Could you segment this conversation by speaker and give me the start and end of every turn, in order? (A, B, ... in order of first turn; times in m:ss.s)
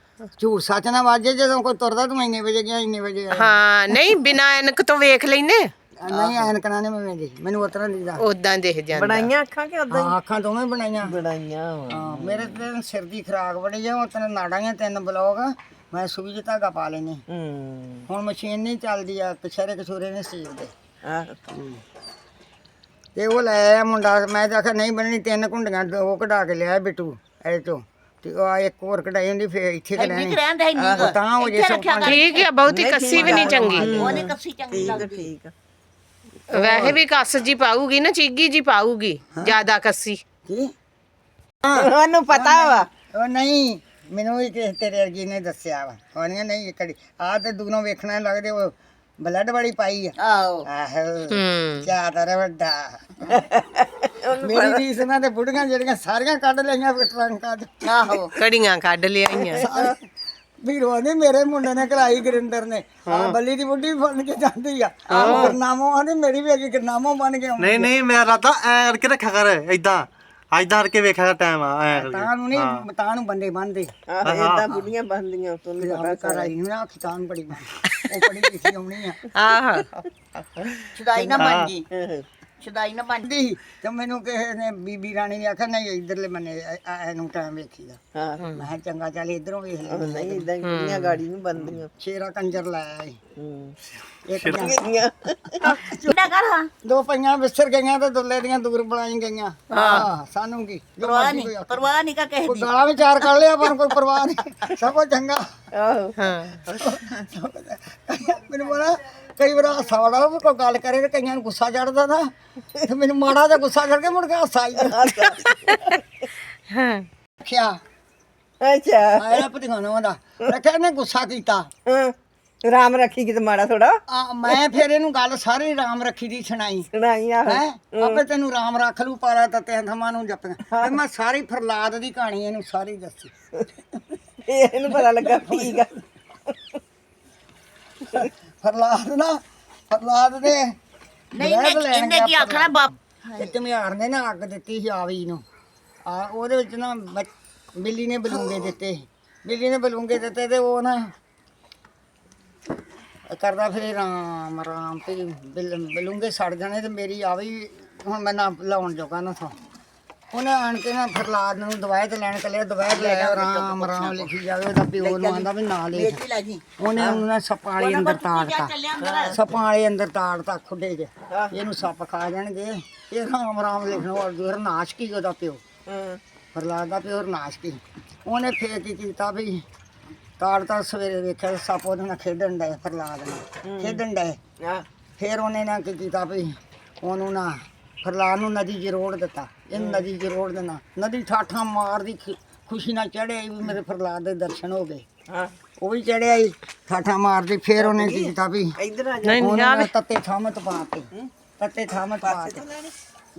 0:00.4-0:04.1 A
0:03.3-0:05.7 B
0:06.0-0:08.2 A
0:06.1-0:06.5 C
0:08.2-0:09.3 B
0:08.9-0:10.2 C
0:09.9-0:11.2 A
0:11.0-0:12.6 C
0:11.9-0:17.2 A
0:17.3-0:18.1 C
0:18.1-0:20.7 A
0:21.0-0:21.3 C
0:21.5-0:21.8 A
0:23.2-0:32.2 A
0:30.0-0:32.5 D
0:32.0-0:34.0 B
0:32.6-0:35.5 C
0:33.2-0:35.0 A
0:34.0-0:35.3 D
0:36.5-0:40.2 B
0:36.5-0:37.0 A
0:40.5-0:40.7 A
0:41.6-0:50.1 A
0:41.7-0:42.9 C
0:50.2-0:50.6 D
0:50.6-0:53.5 A
0:51.3-0:51.9 B
0:53.3-0:54.9 C
0:54.4-0:57.8 A
0:57.8-0:58.3 D
0:58.3-0:59.6 B
0:59.4-0:59.9 C
0:59.5-1:00.0 A
1:00.6-1:07.9 A
1:03.1-1:03.3 C
1:05.1-1:05.6 B
1:05.2-1:05.5 C
1:07.6-1:12.8 E
1:11.9-1:13.9 A
1:14.1-1:16.5 C
1:14.2-1:14.7 E
1:15.8-1:19.2 A
1:19.3-1:19.9 B
1:20.9-1:21.8 D
1:21.2-1:21.6 A
1:21.4-1:21.7 E
1:21.9-1:22.2 C
1:22.6-1:23.2 D
1:23.2-1:28.0 A
1:28.1-1:28.5 C
1:28.4-1:28.6 B
1:28.5-1:30.5 A
1:29.9-1:31.9 C
1:30.6-1:31.2 B
1:31.6-1:33.2 A
1:33.4-1:33.8 C
1:34.2-1:34.9 A
1:34.4-1:34.7 E
1:34.5-1:35.8 C
1:35.4-1:36.2 A
1:36.0-1:36.7 D
1:36.8-1:41.9 A
1:39.7-1:40.0 D
1:39.7-1:40.1 B
1:41.0-1:43.4 D
1:42.4-1:45.5 A
1:45.7-1:46.2 C
1:46.2-1:46.6 B
1:46.6-1:55.3 A
1:54.8-1:55.9 C
1:56.7-1:57.1 B
1:57.4-1:57.8 A
1:58.6-1:59.5 C
1:59.2-2:01.7 A
2:01.8-2:04.7 C
2:04.1-2:06.9 A
2:06.9-2:08.2 C
2:07.4-2:13.3 A
2:10.7-2:11.0 C
2:14.4-2:15.9 C
2:15.3-2:15.7 A
2:16.5-2:16.8 C
2:18.1-2:20.7 A
2:21.3-2:23.5 D
2:21.4-2:22.7 A
2:23.4-2:25.4 A
2:26.0-2:31.1 A
2:33.3-2:39.5 A
2:40.3-2:46.2 A
2:42.9-2:44.3 D
2:45.0-2:46.6 D
2:46.8-2:55.6 A
2:47.0-2:47.2 C
2:47.8-2:49.4 D
2:49.0-2:49.4 C
2:51.3-2:51.6 C
2:55.9-2:56.2 C
2:56.5-2:59.6 A
3:00.4-3:04.4 A
3:03.6-3:04.0 C
3:04.6-3:04.8 C
3:05.2-3:15.0 A
3:09.7-3:10.0 C
3:15.3-3:15.5 C
3:15.8-3:18.8 A
3:17.8-3:19.5 C
3:19.2-3:19.9 B
3:19.4-3:22.6 A
3:22.2-3:22.9 C